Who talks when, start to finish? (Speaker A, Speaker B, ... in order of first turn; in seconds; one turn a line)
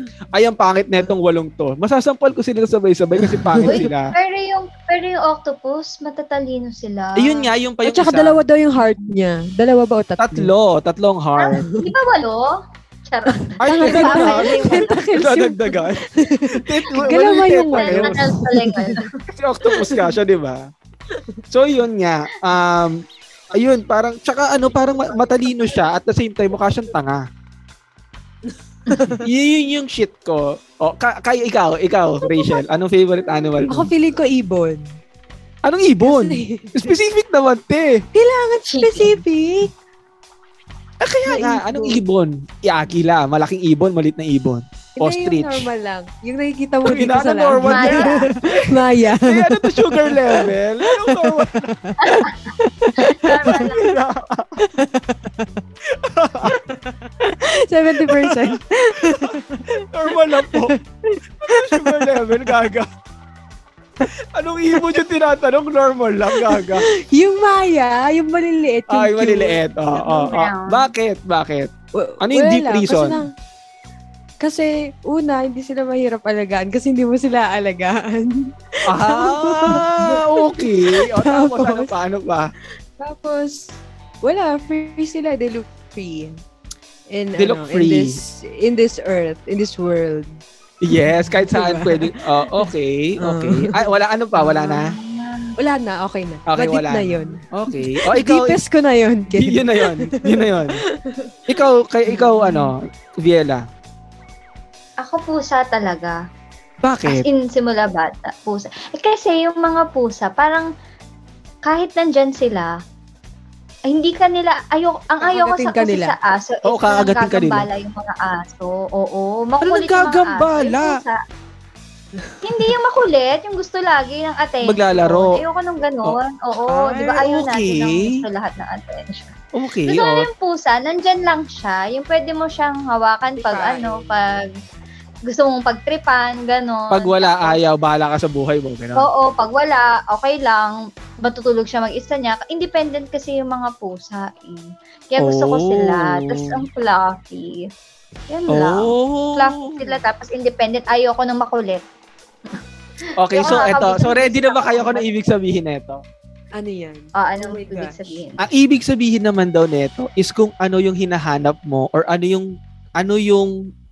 Speaker A: 0.3-4.1
Speaker B: 3.2-3.8
Speaker C: 3.6-7.5
Speaker A: 7.2-8.4
Speaker B: 7.8-10.5
Speaker A: 10.2-11.6
Speaker C: 11.4-15.0
Speaker B: 13.3-19.0
Speaker A: 13.6-18.2
Speaker C: 17.1-19.2
Speaker A: 19.3-20.7
Speaker A: 21.5-27.2
Speaker B: 28.5-29.2
Speaker A: 29.2-33.9
Speaker B: 33.7-35.0
Speaker A: 35.6-38.0
Speaker B: 36.0-36.9
Speaker B: 38.1-39.7
Speaker C: 38.7-39.2
Speaker A: 41.0-45.7
Speaker B: 41.2-42.0
Speaker B: 45.0-53.6
Speaker A: 46.8-51.7
Speaker C: 47.6-48.3
Speaker C: 52.0-52.4
Speaker C: 53.0-53.9
Speaker A: 53.4-54.6
Speaker B: 54.6-55.5
Speaker A: 55.9-56.6
Speaker B: 56.4-62.5
Speaker A: 58.0-60.7
Speaker A: 61.4-62.9
Speaker A: 64.1-66.8
Speaker B: 66.3-69.6
Speaker A: 68.9-71.7
Speaker C: 70.0-70.9
Speaker B: 71.9-73.3
Speaker A: 72.2-73.2
Speaker B: 74.4-81.9
Speaker A: 78.9-82.5
Speaker B: 83.0-86.4
Speaker B: 87.1-93.8
Speaker A: 87.4-88.2
Speaker A: 90.8-94.9
Speaker C: 94.4-95.5
Speaker B: 95.6-101.3
Speaker A: 96.5-98.6
Speaker A: 99.3-100.8
Speaker A: 101.5-103.7
Speaker B: 102.1-102.7
Speaker C: 105.0-106.2
Speaker A: 106.8-107.2
Speaker C: 107.0-110.7
Speaker C: 111.6-112.8
Speaker C: 113.9-121.2
Speaker B: 115.2-116.1
Speaker A: 116.6-117.7
Speaker A: 119.6-121.0
Speaker C: 122.4-129.3
Speaker A: 124.6-125.4
Speaker A: 126.0-128.1
Speaker A: 129.5-130.3
Speaker C: 129.9-134.4
Speaker B: 133.3-134.4
Speaker C: 135.3-137.6
Speaker A: 136.9-139.1
Speaker C: 139.0-147.7
Speaker A: 145.2-146.6
Speaker C: 148.3-151.8
Speaker A: 148.5-149.9
Speaker C: 153.1-155.1
Speaker A: 153.2-156.0
Speaker B: 156.6-158.2
Speaker C: 157.2-158.4
Speaker A: 158.4-163.5